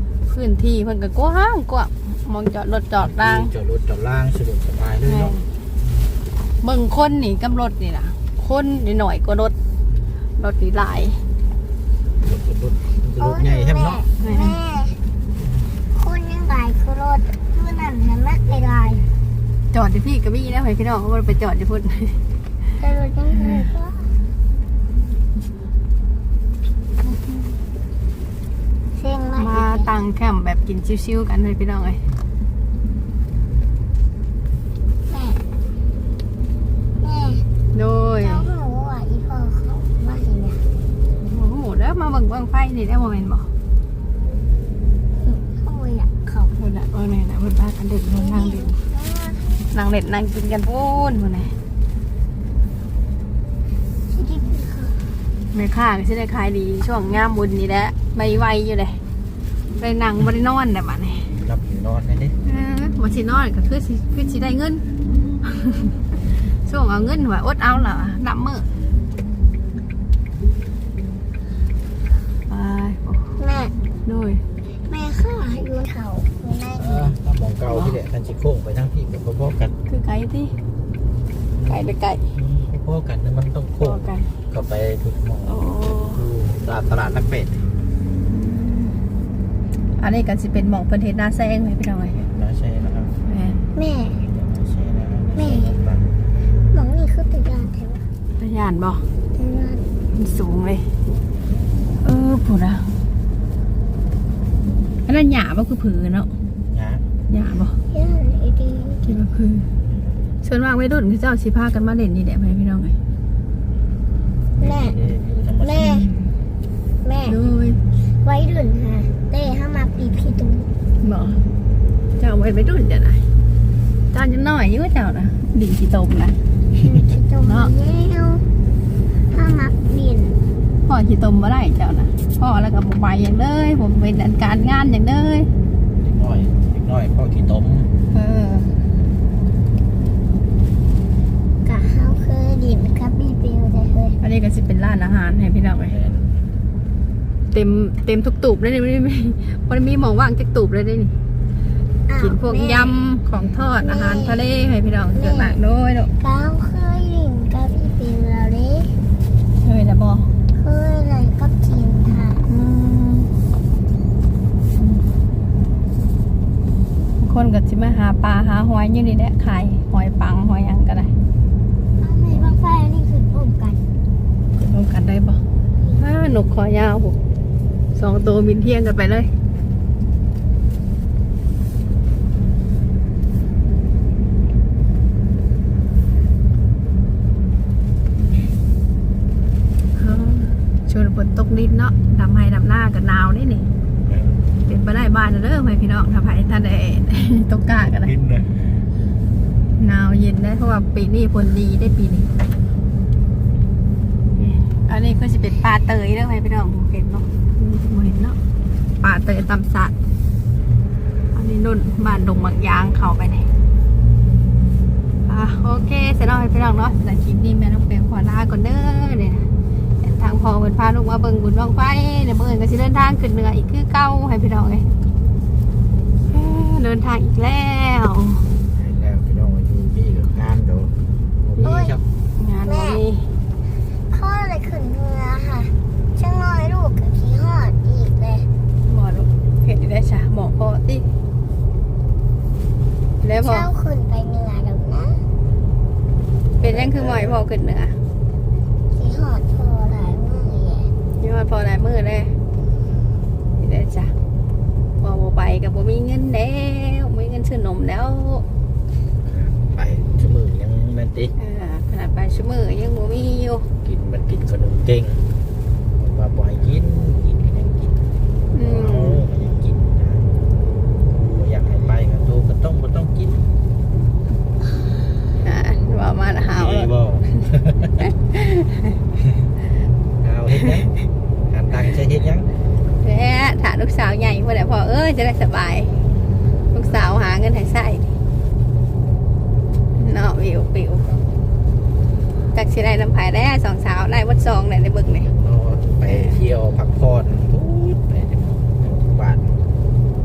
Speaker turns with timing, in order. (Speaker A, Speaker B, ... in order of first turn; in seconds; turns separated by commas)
Speaker A: 0.3-3.5, Speaker B: 3.0-5.3, Speaker A: 5.1-5.5, Speaker A: 6.6-9.5, Speaker A: 10.4-11.2, Speaker B: 12.2-14.1, Speaker C: 13.2-15.0, Speaker A: 14.2-14.6, Speaker C: 15.9-19.1, Speaker A: 19.7-22.2, Speaker C: 22.8-24.1, Speaker C: 28.9-29.9, Speaker A: 29.4-32.0, Speaker C: 35.1-35.4, Speaker C: 37.0-37.5, Speaker A: 37.7-38.5, Speaker C: 38.2-40.6, Speaker A: 41.2-43.5, Speaker C: 45.2-46.5, Speaker A: 46.5-48.8, Speaker C: 48.1-49.5, Speaker A: 49.7-51.5, Speaker C: 54.1-55.2, Speaker A: 55.5-59.0, Speaker A: 59.8-61.3, Speaker B: 61.4-62.4, Speaker A: 62.4-64.8, Speaker A: 65.4-66.0, Speaker A: 66.7-68.7, Speaker A: 72.5-73.3, Speaker C: 73.4-73.7, Speaker A: 74.0-74.4, Speaker C: 74.9-77.2, Speaker B: 76.7-79.7, Speaker A: 79.9-80.5, Speaker B: 81.6-85.6, Speaker A: 81.7-82.2, Speaker A: 83.8-84.3, Speaker A: 85.5-86.2, Speaker B: 86.1-87.6, Speaker A: 88.5-88.9, Speaker A: 90.0-92.3, Speaker B: 92.3-93.1, Speaker A: 93.3-93.6, Speaker C: 93.8-94.3, Speaker B: 94.3-96.1, Speaker C: 95.3-95.8, Speaker C: 96.7-98.1, Speaker A: 98.4-99.0, Speaker C: 99.3-99.9, Speaker A: 100.1-100.9, Speaker A: 102.0-102.9, Speaker A: 105.1-106.3, Speaker B: 106.7-107.0, Speaker A: 107.3-107.8, Speaker C: 107.9-109.2, Speaker A: 109.1-109.7, Speaker A: 110.4-113.0, Speaker B: 114.6-116.3, Speaker C: 114.6-115.0, Speaker C: 115.6-116.0, Speaker C: 117.0-117.4, Speaker A: 117.2-117.8, Speaker C: 118.0-120.7, Speaker A: 121.0-121.4, Speaker A: 122.2-123.2, Speaker A: 124.1-126.4, Speaker C: 126.8-128.5, Speaker A: 127.5-127.7, Speaker C: 129.3-130.4, Speaker A: 130.9-135.5, Speaker B: 136.0-137.9, Speaker A: 138.1-138.7, Speaker C: 141.7-144.2, Speaker A: 144.2-146.0, Speaker B: 145.8-146.4, Speaker A: 147.5-151.1, Speaker C: 152.1-153.0, Speaker A: 152.2-156.1, Speaker C: 153.8-154.5, Speaker C: 155.1-155.6, Speaker C: 156.2-159.0, Speaker A: 159.6-160.3, Speaker C: 160.5-162.5, Speaker A: 162.4-163.3, Speaker A: 167.2-171.1, Speaker C: 172.0-173.9, Speaker A: 174.6-175.4, Speaker C: 175.8-176.1, Speaker A: 176.0-177.2, Speaker A: 177.9-179.3, Speaker A: 190.0-193.7, Speaker B: 194.1-194.5, Speaker A: 194.7-198.1, Speaker B: 197.8-198.6, Speaker A: 199.8-202.3, Speaker A: 204.4-208.4, Speaker A: 209.0-209.9, Speaker A: 211.3-213.5, Speaker A: 215.3-219.5, Speaker A: 220.0-224.9, Speaker A: 226.3-228.5, Speaker B: 228.7-232.0, Speaker A: 231.6-231.8, Speaker C: 231.6-232.0, Speaker A: 232.4-233.3, Speaker C: 232.6-233.0, Speaker C: 234.1-238.5, Speaker A: 238.8-241.1, Speaker A: 243.2-243.7, Speaker C: 243.4-245.2, Speaker B: 246.6-247.4, Speaker A: 246.6-248.0, Speaker C: 248.9-250.9, Speaker A: 251.2-252.3, Speaker A: 253.6-254.1, Speaker A: 255.0-258.4, Speaker B: 259.2-261.3, Speaker A: 261.4-263.7, Speaker B: 263.8-265.2, Speaker B: 266.0-268.0, Speaker A: 268.5-269.2, Speaker B: 268.6-270.4, Speaker B: 271.1-273.4, Speaker A: 275.4-276.9, Speaker B: 276.6-278.0, Speaker A: 278.3-278.7, Speaker B: 280.2-280.9, Speaker B: 281.5-282.5, Speaker A: 283.0-285.9, Speaker A: 286.7-288.1, Speaker A: 290.0-291.1, Speaker A: 292.5-295.3, Speaker B: 295.3-299.6, Speaker A: 296.1-296.4